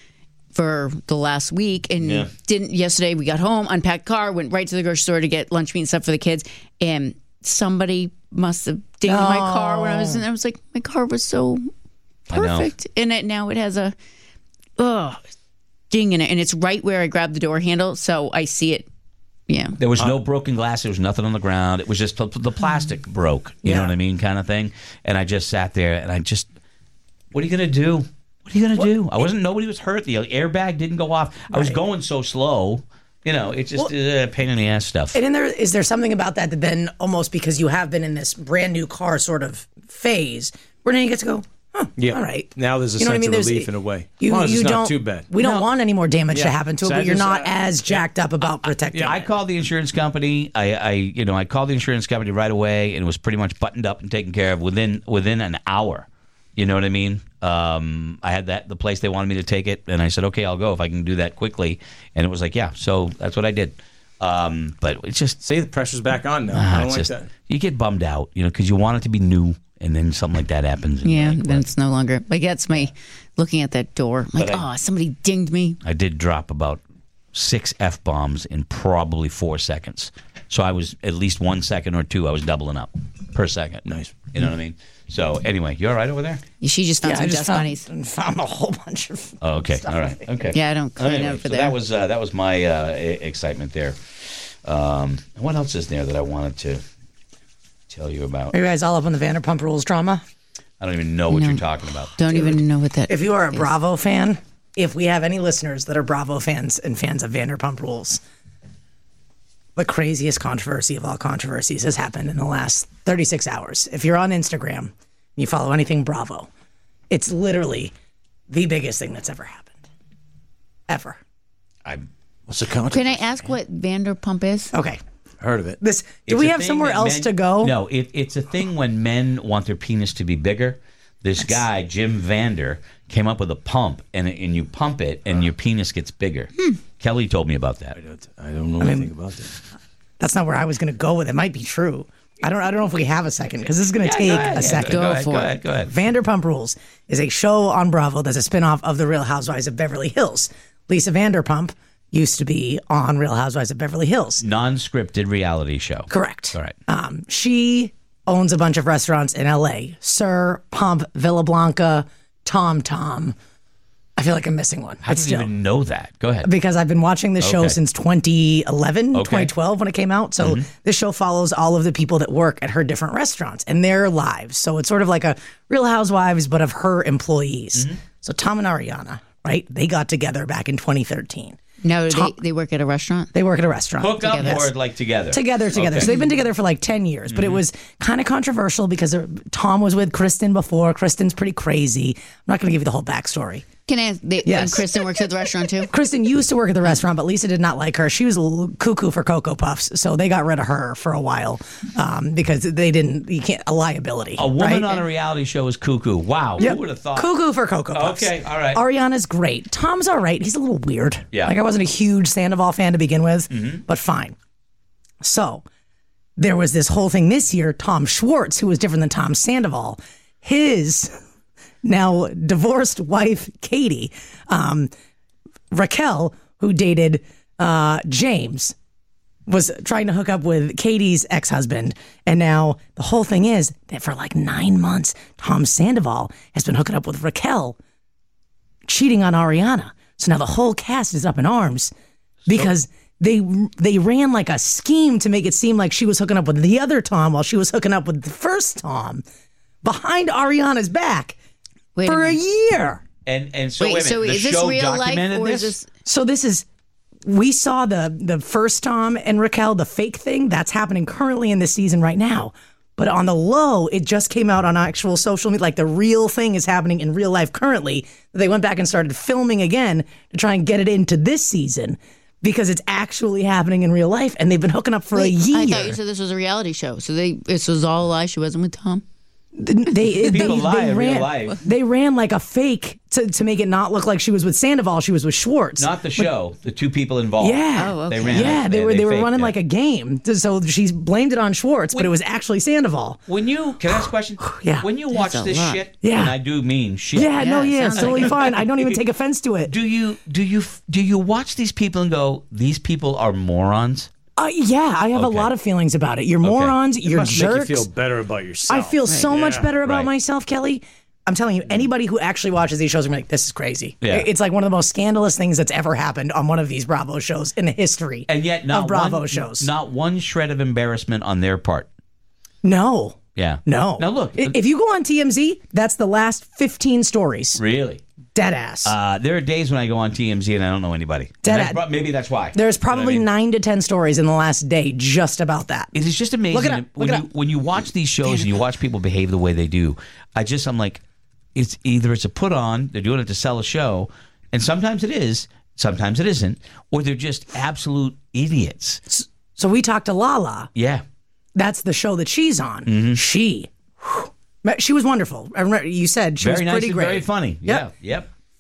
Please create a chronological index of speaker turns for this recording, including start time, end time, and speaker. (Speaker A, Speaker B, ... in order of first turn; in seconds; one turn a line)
Speaker A: 0.5-11.7
Speaker B: 2.0-2.3
Speaker C: 9.1-10.2
Speaker A: 12.3-13.9
Speaker B: 12.3-12.7
Speaker A: 14.8-15.2
Speaker A: 15.9-18.9
Speaker A: 19.5-19.8
Speaker B: 19.8-26.5
Speaker C: 23.6-23.9
Speaker B: 27.3-35.2
Speaker C: 31.5-31.8
Speaker C: 35.1-49.2
Speaker D: 42.0-45.3
Speaker B: 45.4-45.6
Speaker D: 46.3-48.0
Speaker D: 48.9-49.2
Speaker B: 49.0-65.4
Speaker D: 65.4-67.3
Speaker B: 66.5-71.7
Speaker A: 71.0-75.8
Speaker B: 74.4-74.7
Speaker B: 75.8-76.8
Speaker B: 77.3-86.4
Speaker D: 83.9-84.2
Speaker A: 86.6-87.9
Speaker C: 87.0-90.2
Speaker B: 89.4-96.8
Speaker A: 90.5-91.8
Speaker B: 97.9-98.6
Speaker C: 98.5-100.2
Speaker B: 100.8-102.2
Speaker A: 101.3-101.6
Speaker A: 102.2-103.7
Speaker C: 103.1-108.2
Speaker C: 109.8-116.5
Speaker C: 117.1-117.9
Speaker C: 118.5-119.8
Speaker C: 120.9-121.2
Speaker D: 122.5-123.5
Speaker A: 122.9-124.7
Speaker C: 124.7-125.0
Speaker D: 125.4-125.8
Speaker C: 125.8-127.8
Speaker B: 126.3-138.0
Speaker D: 138.0-139.5
Speaker C: 138.8-139.1
Speaker C: 140.2-145.3
Speaker B: 144.0-145.9
Speaker A: 144.6-145.5
Speaker C: 145.8-154.4
Speaker B: 154.4-156.8
Speaker C: 156.1-163.3
Speaker C: 164.2-165.5
Speaker B: 165.0-166.5
Speaker C: 166.4-182.4
Speaker B: 167.4-167.8
Speaker B: 169.1-169.5
Speaker B: 170.4-170.7
Speaker A: 181.8-183.3
Speaker C: 183.3-184.7
Speaker B: 184.0-186.1
Speaker A: 184.2-184.6
Speaker C: 185.3-193.7
Speaker B: 187.3-187.6
Speaker A: 193.9-195.9
Speaker C: 194.4-195.0
Speaker C: 195.8-205.0
Speaker B: 204.4-207.3
Speaker C: 206.6-214.4
Speaker B: 207.9-208.8
Speaker B: 213.5-213.8
Speaker C: 215.2-215.7
Speaker C: 216.4-221.2
Speaker C: 221.8-224.9
Speaker C: 225.7-228.8
Speaker C: 229.5-237.8
Speaker C: 238.9-241.9
Speaker C: 242.5-249.2
Speaker C: 249.8-251.4
Speaker A: 251.9-252.4
Speaker C: 252.1-253.0
Speaker B: 253.3-255.8
Speaker A: 253.8-255.9
Speaker C: 256.1-256.7
Speaker C: 257.2-276.0
Speaker A: 275.1-279.0
Speaker C: 279.6-286.3
Speaker B: 280.2-281.6
Speaker B: 285.8-289.6
Speaker C: 287.4-293.2
Speaker A: 287.8-288.5
Speaker B: 293.3-298.9
Speaker C: 293.9-294.9
Speaker A: 295.1-295.8
Speaker C: 296.0-296.4
Speaker C: 297.1-299.7
Speaker A: 297.4-298.4
Speaker B: 299.7-304.1
Speaker C: 304.4-307.9
Speaker B: 305.1-305.5
Speaker B: 306.4-306.8
Speaker D: 307.0-309.7
Speaker C: 308.7-319.7
Speaker B: 314.0-314.3
Speaker B: 318.3-321.9
Speaker C: 322.6-327.6
Speaker B: 323.4-324.6
Speaker B: 327.6-328.0
Speaker C: 328.4-328.9
Speaker B: 328.9-333.2
Speaker C: 331.4-331.8
Speaker C: 332.5-335.9
Speaker B: 335.9-341.0
Speaker C: 336.5-337.3
Speaker B: 341.6-349.0
Speaker C: 349.1-350.7
Speaker B: 350.8-351.0
Speaker C: 351.6-357.9
Speaker B: 352.9-353.2
Speaker B: 356.4-358.3